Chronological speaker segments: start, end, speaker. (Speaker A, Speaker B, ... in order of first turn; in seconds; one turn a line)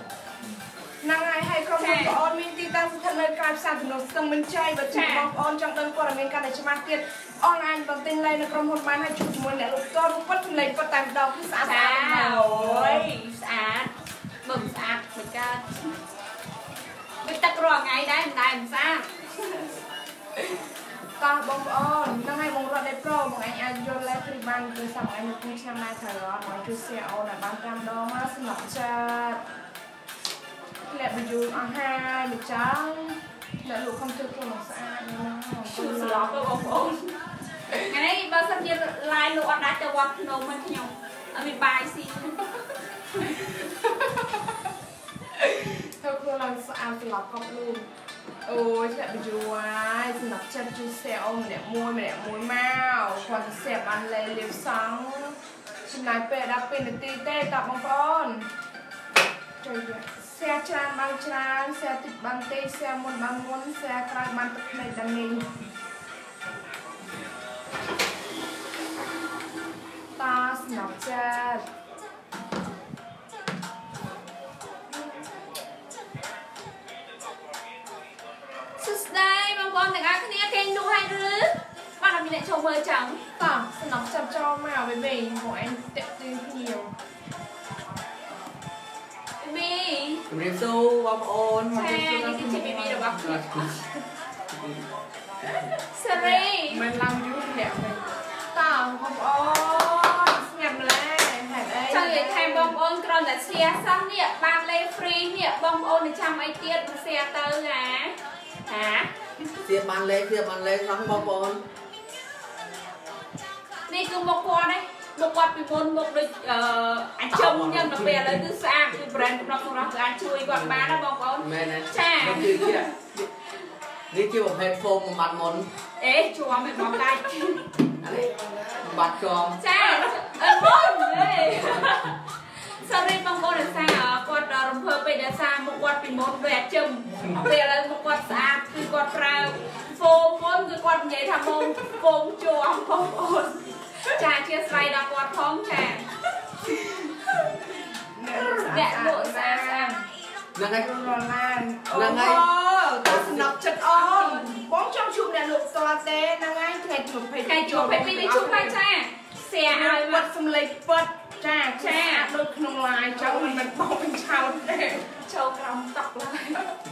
Speaker A: 1.0-13.1
Speaker B: 1.8-2.2
Speaker B: 4.9-5.3
Speaker B: 11.6-13.9
Speaker B: 14.4-15.9
Speaker B: 17.2-19.7
Speaker A: 21.2-29.4
Speaker A: 30.9-36.6
Speaker B: 35.7-37.1
Speaker B: 37.7-43.4
Speaker A: 45.4-47.9
Speaker A: 48.5-58.5
Speaker A: 59.6-65.5
Speaker A: 70.2-71.6
Speaker B: 78.8-83.2
Speaker A: 83.4-86.9
Speaker B: 89.4-90.2
Speaker C: 90.3-93.7
Speaker B: 91.7-93.9
Speaker B: 95.7-96.8
Speaker A: 96.1-102.8
Speaker B: 101.9-108.2
Speaker B: 108.7-109.1
Speaker C: 109.6-111.6
Speaker B: 113.9-122.9
Speaker C: 117.3-118.5
Speaker C: 121.4-123.3
Speaker C: 124.1-125.7
Speaker B: 126.0-127.7
Speaker C: 128.0-129.6
Speaker B: 129.6-146.1
Speaker A: 129.8-131.0
Speaker C: 131.2-131.9
Speaker A: 147.0-150.1
Speaker B: 148.4-149.9
Speaker C: 150.6-151.0
Speaker A: 150.8-158.8
Speaker C: 151.9-152.4
Speaker C: 153.0-153.5
Speaker B: 153.9-154.6
Speaker B: 157.4-160.3
Speaker A: 159.7-165.1
Speaker B: 161.8-162.3
Speaker B: 165.2-166.7